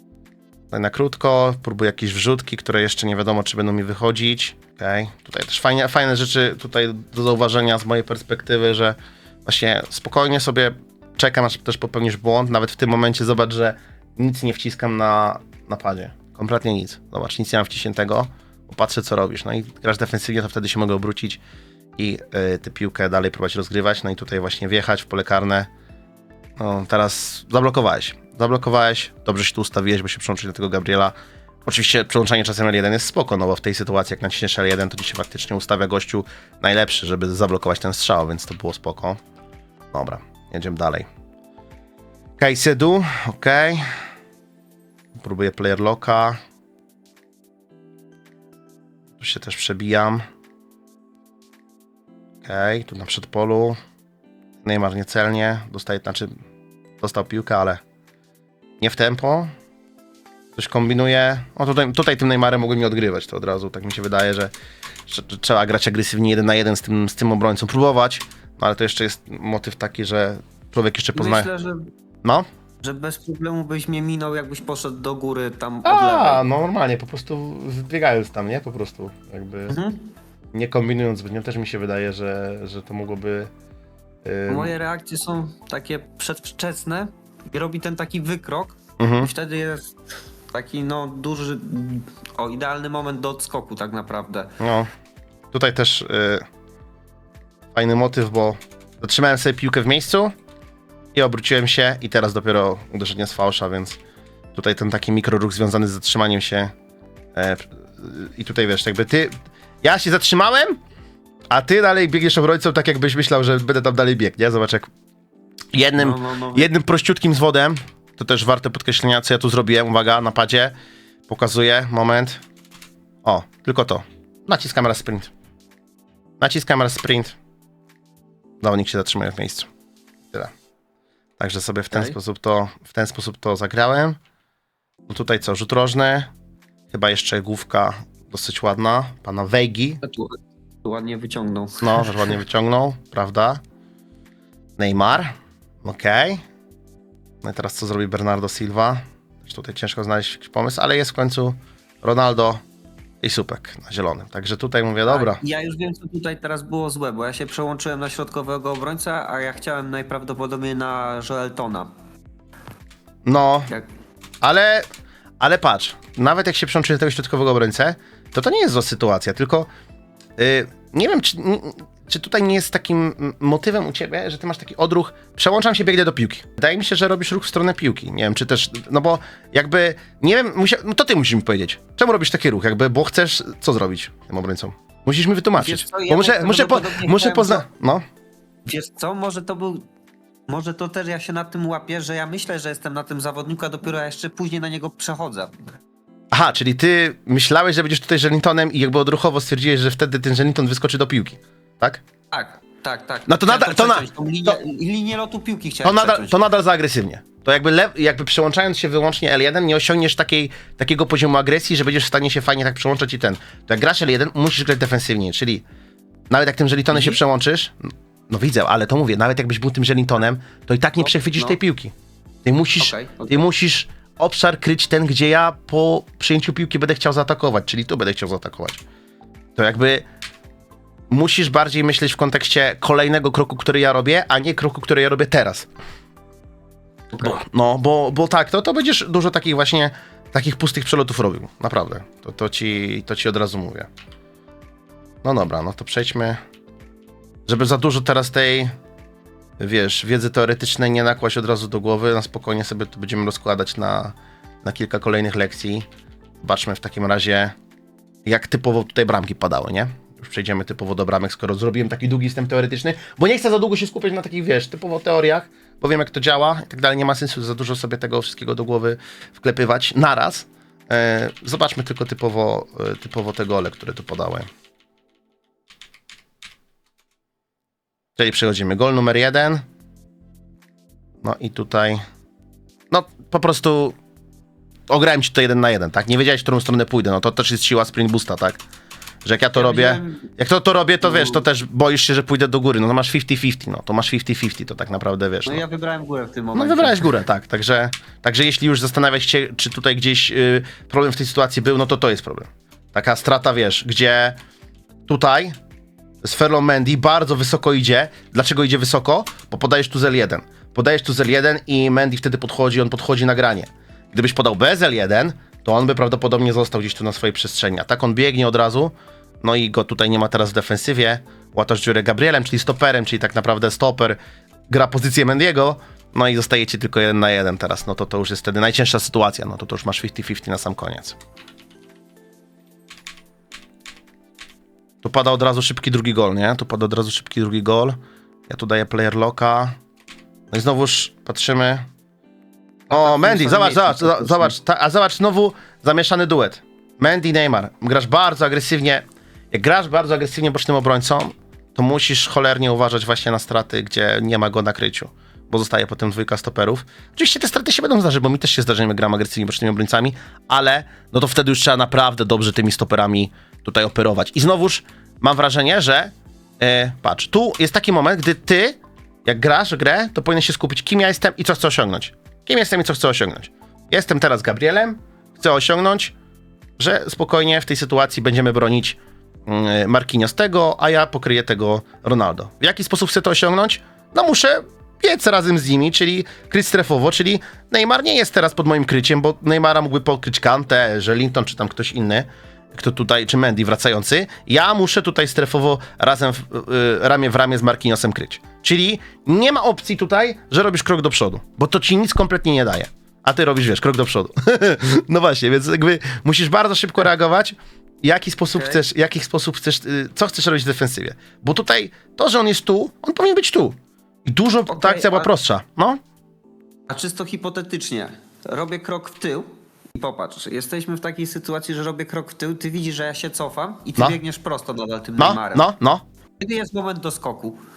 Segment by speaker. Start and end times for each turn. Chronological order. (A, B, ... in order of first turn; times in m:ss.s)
0:00.7-0:21.4 A
0:22.0-0:25.7 A
0:26.6-0:31.1 A
0:31.6-0:39.2 A
0:39.9-0:41.0 A
0:42.4-0:43.9 A
0:45.1-0:46.4 A
0:49.2-0:50.2 A
0:52.4-0:53.8 A
0:54.6-0:56.4 A
0:57.0-0:57.8 A
0:58.8-0:59.5 A
1:00.6-1:04.5 A
1:05.1-1:11.5 A
1:11.1-1:11.9 B
1:12.8-1:16.4 B
1:15.8-1:19.8 A
1:19.7-1:20.0 B
1:20.5-1:23.5 A
1:24.2-1:24.7 A
1:24.5-1:30.0 B
1:29.0-1:29.3 A
1:30.5-1:34.5 B
1:34.6-1:34.9 A
1:35.5-1:36.4 A
1:37.7-1:40.3 A
1:41.1-1:44.0 A
1:44.5-1:46.7 A
1:47.3-1:50.8 A
1:51.5-1:54.9 A
1:55.7-2:00.7 A
1:56.0-1:56.7 B
2:01.3-2:02.4 A
2:03.2-2:05.3 A
2:06.4-2:07.3 A
2:08.6-2:09.7 A
2:11.4-2:14.2 A
2:15.1-2:16.3 A
2:16.9-2:20.0 A
2:20.0-2:22.3 B
2:21.8-2:23.6 A
2:24.8-2:25.3 A
2:25.8-2:26.4 A
2:27.4-2:32.6 A
2:33.2-2:35.4 A
2:35.0-2:41.9 B
2:43.2-2:43.7 A
2:44.4-2:44.8 A
2:45.4-2:49.7 A
2:50.4-3:08.0 A
3:05.6-3:07.6 B
3:08.6-3:09.8 B
3:10.5-3:15.5 B
3:16.3-3:22.0 A
3:22.3-3:26.4 B
3:23.3-3:24.6 A
3:25.8-3:35.6 A
3:36.3-3:41.9 A
3:36.9-3:37.2 B
3:41.0-3:41.6 B
3:42.4-3:48.8 A
3:42.8-3:43.4 B
3:49.6-3:50.0 A
3:51.1-3:55.7 A
3:57.2-4:03.9 A
4:05.2-4:06.4 A
4:07.4-4:08.7 A
4:09.6-4:15.8 A
4:16.4-4:17.5 A
4:18.2-4:34.5 A
4:38.2-4:39.6 A
4:41.2-4:42.0 A
4:42.9-4:43.9 A
4:44.9-4:48.6 A
4:49.2-4:55.6 A
4:49.5-4:50.3 B
4:51.0-4:51.4 B
4:55.4-4:57.1 B
4:56.5-5:04.4 A
5:05.1-5:05.5 A
5:06.2-5:24.2 A
5:24.7-5:31.2 A
5:35.0-5:38.0 A
5:38.5-5:39.7 A
5:40.5-5:41.8 A
5:42.9-5:44.5 B
5:42.9-6:16.1 A
6:16.8-6:56.0 A
6:48.5-6:48.8 B
6:54.7-6:55.3 B
6:56.9-7:05.7 B
7:05.2-7:06.0 A
7:06.4-7:07.6 B